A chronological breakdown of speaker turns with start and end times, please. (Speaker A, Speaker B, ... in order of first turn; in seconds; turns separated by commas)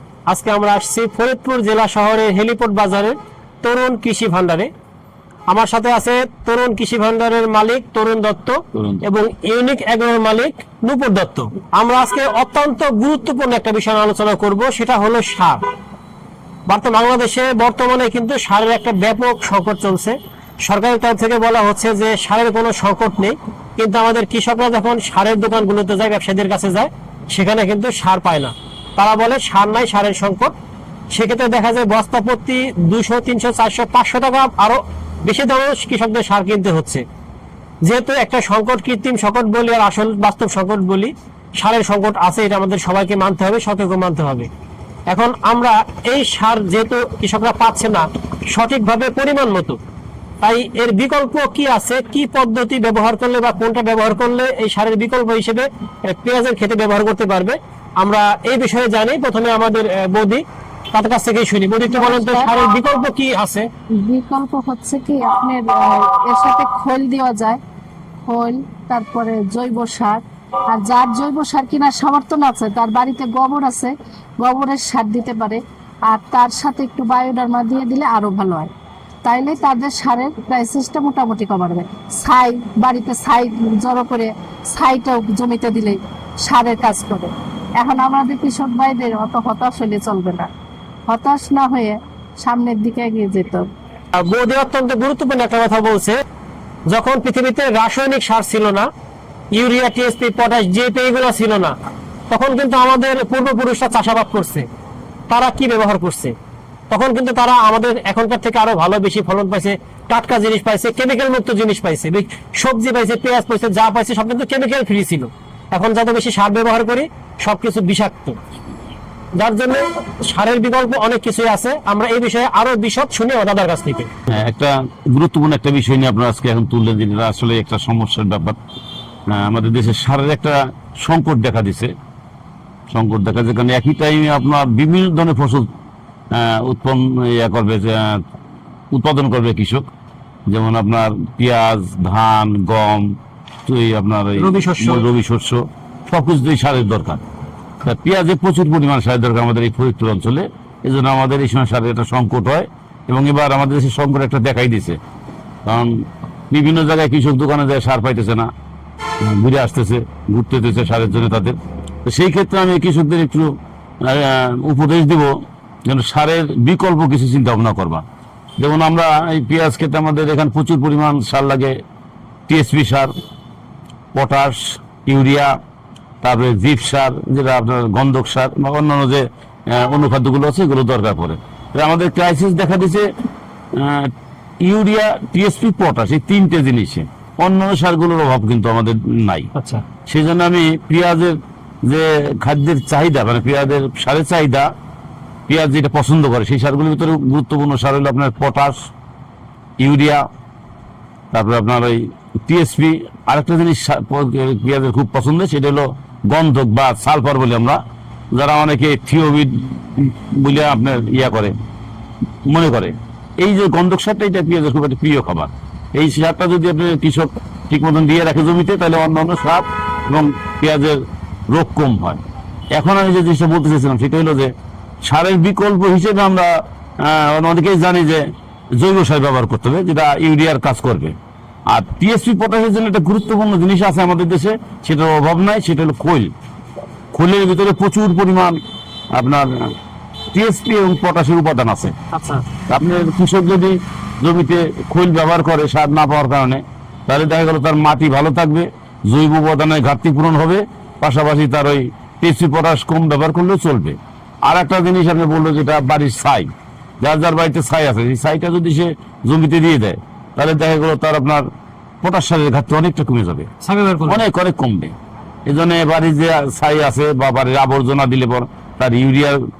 Speaker A: 0.3-4.7, Speaker A: 5.5-15.6, Speaker B: 8.7-9.0, Speaker A: 16.7-30.5, Speaker A: 31.1-37.0, Speaker A: 37.8-44.5, Speaker A: 45.1-49.8, Speaker A: 50.4-63.7, Speaker C: 61.9-62.5, Speaker C: 64.0-67.6, Speaker C: 68.3-78.7, Speaker C: 79.2-90.5, Speaker C: 91.1-93.7, Speaker A: 94.1-96.2, Speaker A: 96.9-98.9, Speaker A: 99.5-101.8, Speaker A: 102.3-104.7, Speaker A: 105.3-106.3, Speaker A: 106.9-118.4, Speaker A: 119.4-124.1, Speaker B: 124.3-128.6, Speaker B: 129.3-131.9, Speaker B: 132.9-135.7, Speaker B: 136.3-138.2, Speaker B: 138.9-139.9, Speaker B: 140.5-143.1, Speaker B: 143.7-147.2, Speaker A: 144.4-145.1, Speaker B: 147.8-155.0, Speaker B: 155.7-155.9, Speaker B: 156.5-158.5, Speaker B: 159.2-165.3, Speaker B: 165.9-168.0, Speaker B: 168.6-171.7, Speaker B: 172.5-173.1, Speaker B: 174.1-175.6, Speaker B: 176.2-183.1, Speaker B: 183.7-189.5, Speaker A: 189.5-189.8, Speaker B: 190.1-194.7, Speaker B: 195.5-198.8, Speaker B: 199.8-200.2, Speaker B: 201.3-207.8, Speaker B: 208.3-211.5, Speaker B: 212.5-222.2, Speaker B: 222.7-224.5, Speaker B: 225.0-228.2, Speaker B: 228.8-231.1, Speaker B: 231.7-236.3, Speaker B: 237.1-238.6, Speaker B: 239.1-239.7, Speaker B: 240.3-241.9, Speaker A: 242.1-242.4, Speaker B: 242.7-261.5, Speaker B: 262.0-263.5, Speaker A: 263.6-264.2, Speaker B: 264.1-264.9, Speaker B: 265.5-269.4